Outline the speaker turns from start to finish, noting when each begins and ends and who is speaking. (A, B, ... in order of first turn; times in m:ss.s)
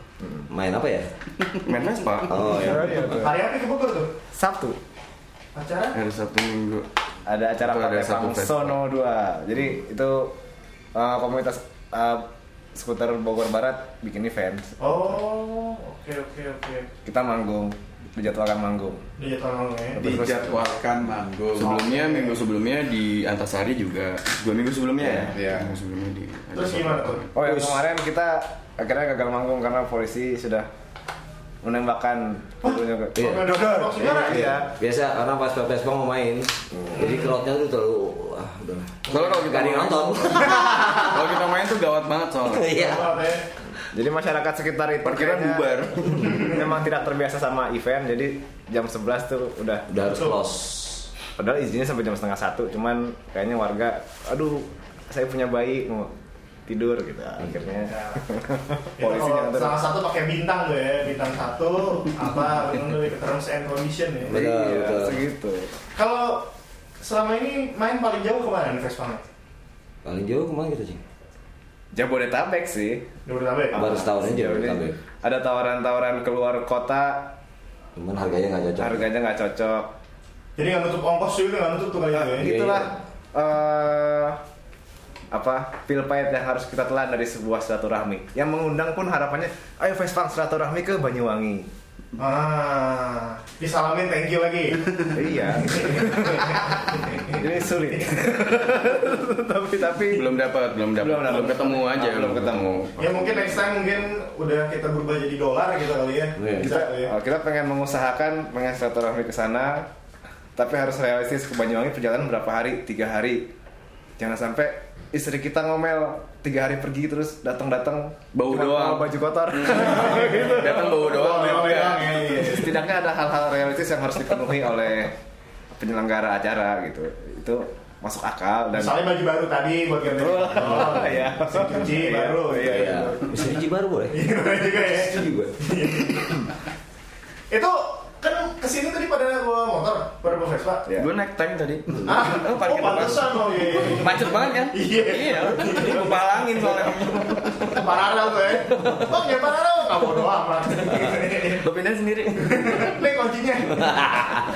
0:00.5-0:01.1 A
0:01.5-0:02.7 B
0:02.3-0:03.1 A
0:02.5-0:03.4 C
0:03.0-0:04.2 D
0:04.3-0:04.8 C
0:05.6-0:06.0 D
0:05.9-0:06.9 B
0:07.3-0:10.4 C
0:07.6-0:08.8 B
0:10.9-0:14.9 C
0:14.8-0:16.9 D
0:17.0-0:19.0 C
0:19.2-0:20.2 D
0:20.0-0:20.6 C
0:20.0-0:21.8 E
0:21.6-0:27.3 B
0:21.6-0:22.4 D
0:25.0-0:25.6 C
0:25.4-0:25.6 E
0:26.6-0:27.2 D
0:27.4-0:30.7 C
0:27.4-0:27.8 A
0:31.6-0:34.7 C
0:32.6-0:34.5 D
0:33.1-0:41.1 A
0:36.9-0:37.3 D
0:39.1-0:42.9 B
0:42.5-0:43.1 A
0:42.7-0:43.4 D
0:43.8-0:49.9 C
0:45.0-0:46.6 B
0:49.9-0:51.0 A
0:51.4-0:56.1 C
0:56.7-0:59.8 C
0:57.8-0:58.2 D
0:59.0-1:04.4 D
1:04.3-1:05.2 A
1:04.3-1:05.7 C
1:05.9-1:06.5 D
1:07.0-1:09.2 D
1:10.0-1:11.0 A
1:11.9-1:13.1 C
1:13.3-1:13.8 D
1:13.7-1:17.4 C
1:13.7-1:15.0 A
1:18.0-1:19.0 A
1:18.8-1:19.9 C
1:20.6-1:22.5 D
1:22.1-1:24.4 C
1:22.4-1:22.9 A
1:25.3-1:31.7 C
1:32.2-1:37.4 D
1:35.1-1:40.3 C
1:40.1-1:43.5 B
1:41.0-1:43.4 C
1:43.0-1:47.1 D
1:46.4-1:46.7 A
1:46.6-1:49.9 C
1:50.6-1:53.5 C
1:54.2-2:01.0 C
1:58.3-2:02.2 B
1:59.8-2:02.8 D
2:02.3-2:05.2 C
2:05.8-2:09.1 C
2:08.7-2:13.0 D
2:10.1-2:13.6 C
2:12.6-2:14.2 A
2:14.1-2:16.5 D
2:14.8-2:15.6 A
2:17.5-2:20.9 D
2:21.0-2:28.1 B
2:22.0-2:26.7 D
2:27.7-2:31.6 D
2:31.4-2:33.0 B
2:32.4-2:34.4 D